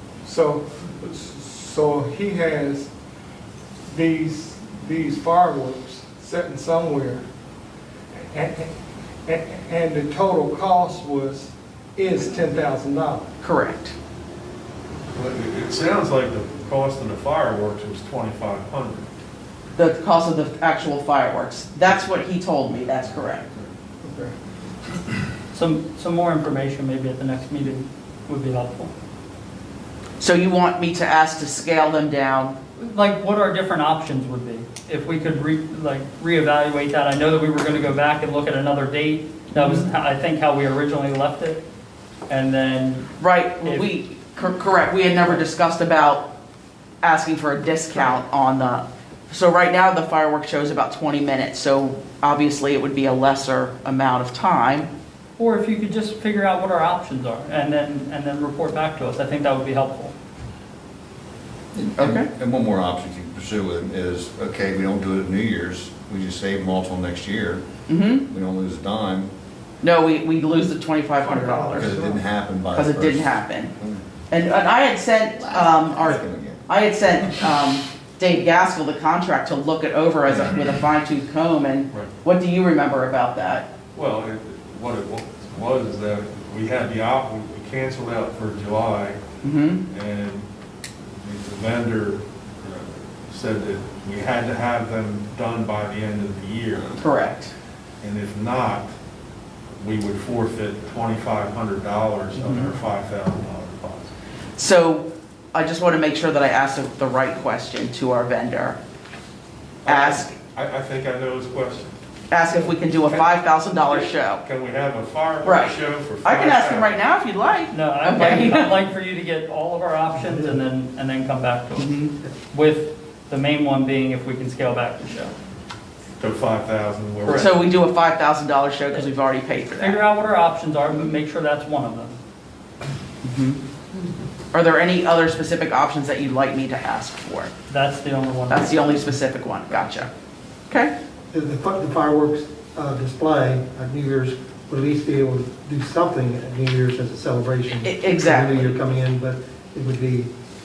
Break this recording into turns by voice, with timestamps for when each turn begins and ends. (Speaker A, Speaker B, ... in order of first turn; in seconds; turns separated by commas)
Speaker A: 0.2-2.9, Speaker A: 3.9-7.2, Speaker A: 8.2-8.7, Speaker A: 9.2-13.3, Speaker B: 13.4-13.9, Speaker C: 15.1-19.1, Speaker B: 19.8-23.4, Speaker A: 24.0-24.3, Speaker D: 25.5-28.9, Speaker B: 30.2-32.6, Speaker D: 32.8-41.6, Speaker B: 39.5-39.8, Speaker D: 42.3-43.9, Speaker B: 43.2-46.3, Speaker B: 47.0-54.9, Speaker D: 55.4-60.1, Speaker E: 61.7-67.6, Speaker B: 62.0-62.3, Speaker B: 67.9-68.2, Speaker E: 68.3-69.3, Speaker B: 69.8-71.9, Speaker A: 71.2-72.2, Speaker E: 71.8-74.0, Speaker B: 72.7-73.7, Speaker B: 74.3-83.7, Speaker E: 76.0-76.6, Speaker C: 83.9-89.2, Speaker B: 89.4-89.8, Speaker C: 89.9-90.5, Speaker C: 91.2-97.0, Speaker B: 97.0-97.5, Speaker C: 98.0-98.9, Speaker C: 99.8-104.1, Speaker B: 102.3-102.7, Speaker B: 104.5-108.8, Speaker C: 109.8-112.0, Speaker B: 109.8-110.3, Speaker B: 112.3-114.4, Speaker C: 113.1-117.0, Speaker B: 115.4-118.7, Speaker D: 117.7-122.0, Speaker F: 120.2-120.5, Speaker B: 121.8-122.1, Speaker D: 122.5-125.3, Speaker C: 126.2-127.7, Speaker B: 127.3-130.0, Speaker D: 129.7-132.1, Speaker B: 133.2-133.6, Speaker B: 134.5-137.5, Speaker D: 137.7-138.9, Speaker B: 138.5-140.1, Speaker F: 141.3-150.3, Speaker B: 147.8-148.8